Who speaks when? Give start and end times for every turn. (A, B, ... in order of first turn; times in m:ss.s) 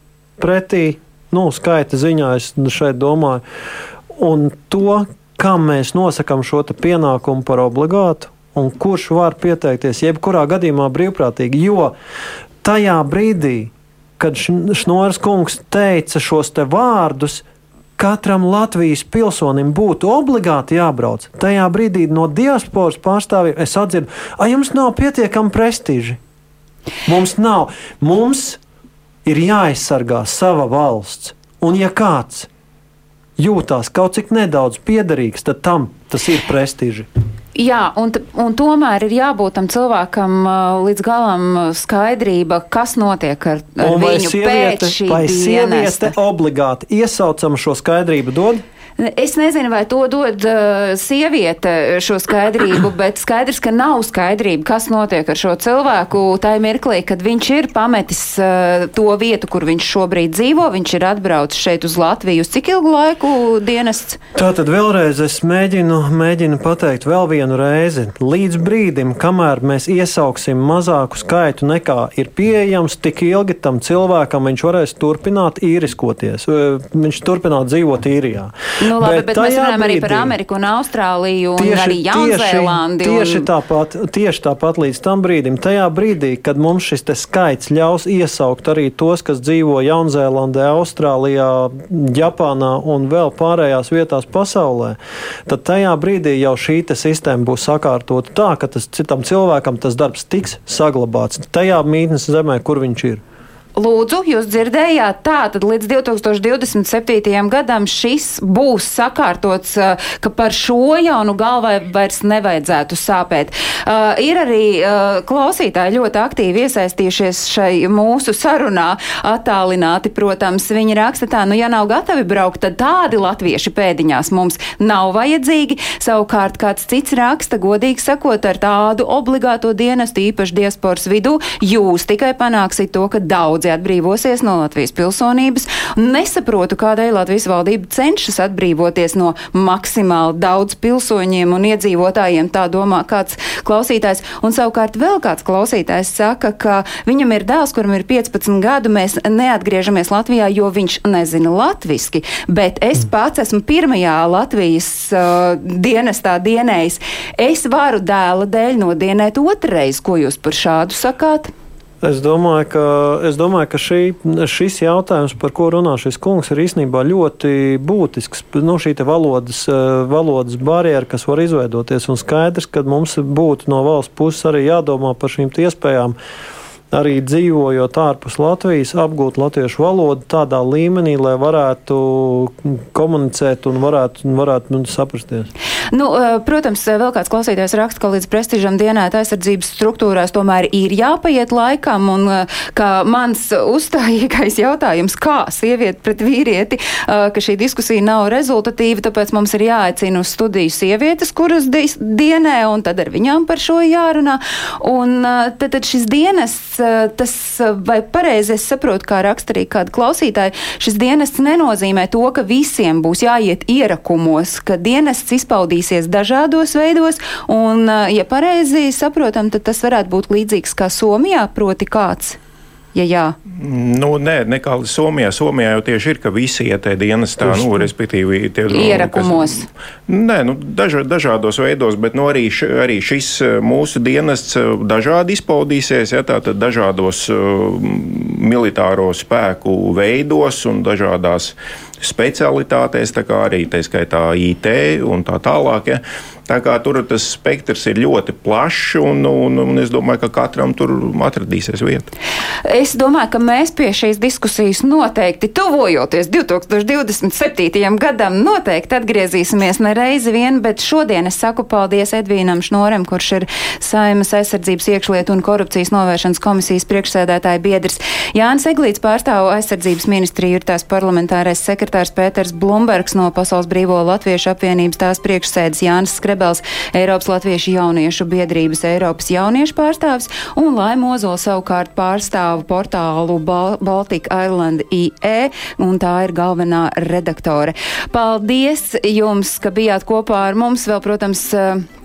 0:00.4-0:03.4 A
0:04.1-0:12.0 A
0:12.6-0:17.4 A
0:18.0-0:26.2 A
0:27.0-0:28.6 A
0:29.2-0:32.5 A
0:33.4-0:37.1 A
0:37.5-0:46.1 B
0:43.8-0:48.6 A
0:49.0-1:04.2 B
1:04.3-1:20.3 A
1:18.8-1:23.5 B
1:21.6-1:43.2 A
1:43.8-2:41.5 B
2:42.0-2:56.2 A
2:56.9-3:05.5 A
3:05.9-3:42.4 B
3:42.9-3:43.4 B
3:43.5-4:12.1 C
3:48.7-3:49.7 B
4:12.6-4:51.8 B